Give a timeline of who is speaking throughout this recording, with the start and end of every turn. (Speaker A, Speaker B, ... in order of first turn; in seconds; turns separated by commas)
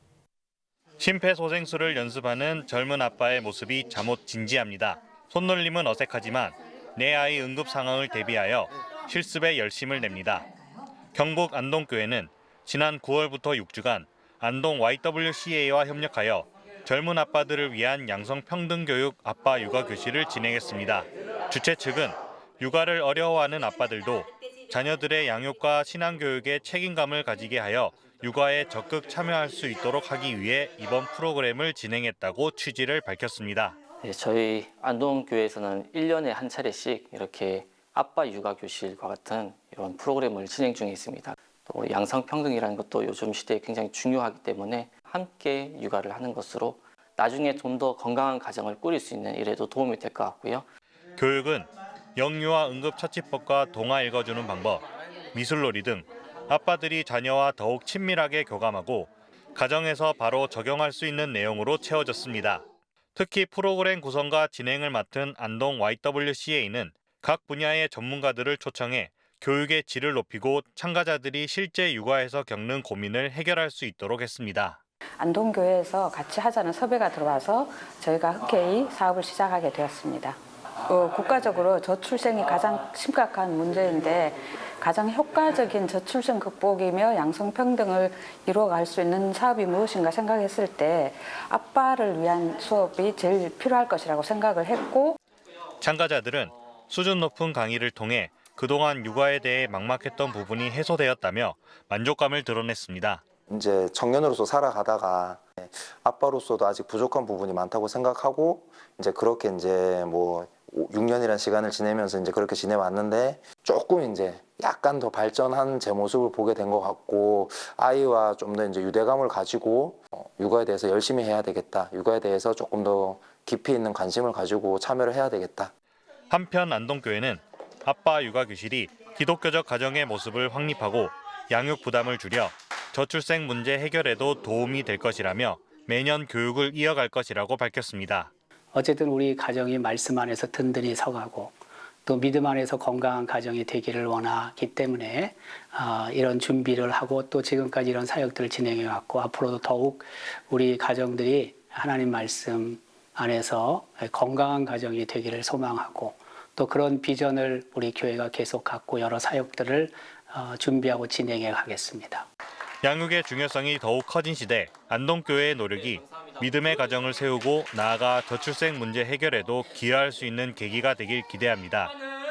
Speaker A: 1.0-10.5, Speaker A: 11.1-33.8, Speaker B: 34.0-50.6, Speaker A: 51.2-62.6, Speaker A: 63.1-74.8, Speaker C: 75.2-95.2, Speaker A: 95.8-103.2, Speaker D: 103.5-125.7, Speaker A: 126.3-138.3, Speaker E: 138.7-162.2, Speaker A: 162.8-171.9